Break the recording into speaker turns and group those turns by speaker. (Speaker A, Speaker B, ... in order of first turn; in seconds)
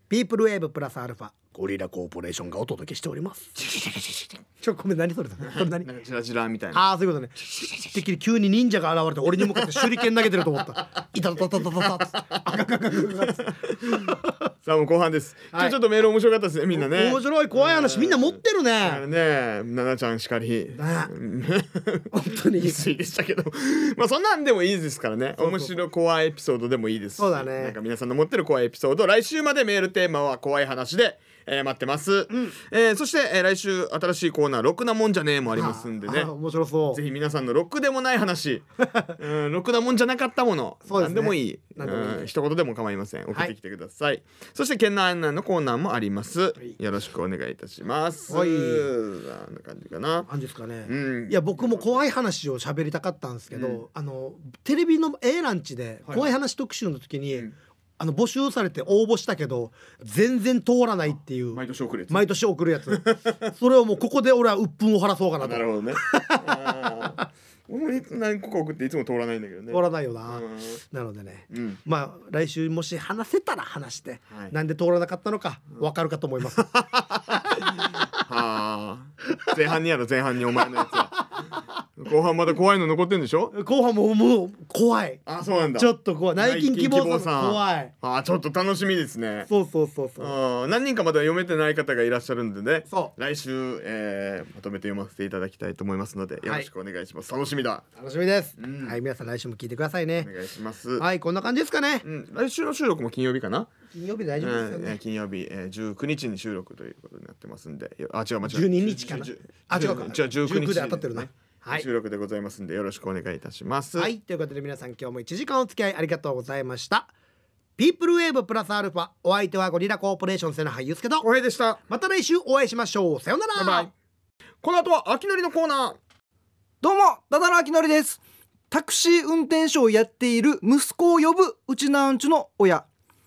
Speaker A: 0.1-5.9, 6.7-14.4, 15.5-15.8, 16.7-19.0, 20.7-21.1, 22.1-22.8, 25.4-25.8, 27.2-27.8, 32.3-32.5, 35.5-37.0, 38.8-39.1, 40.8-42.3, 48.3-48.9, 50.3-67.2, 69.7-76.7, 83.5-85.2, 85.8-87.9, 89.5-90.3, 98.0-100.3, 101.0-102.0, 103.9-105.0, 108.4-111.8, 113.9-117.1, 117.8-121.3, 121.9-123.9
Speaker B: 5.4-6.9, 9.4-10.0, 13.0-36.3, 36.9-50.3, 50.8-51.9, 53.5-53.8, 56.0-56.3, 61.5-62.3, 62.9-63.4, 65.4-70.8, 71.5-71.8, 76.6-81.2, 82.0-83.5, 85.2-89.5, 90.2-97.8, 98.6-99.0, 100.2-101.0, 102.0-103.7, 104.4-114.1, 121.2-121.8, 123.5-123.9, 124.6-126.0
Speaker C: 126.8-132.9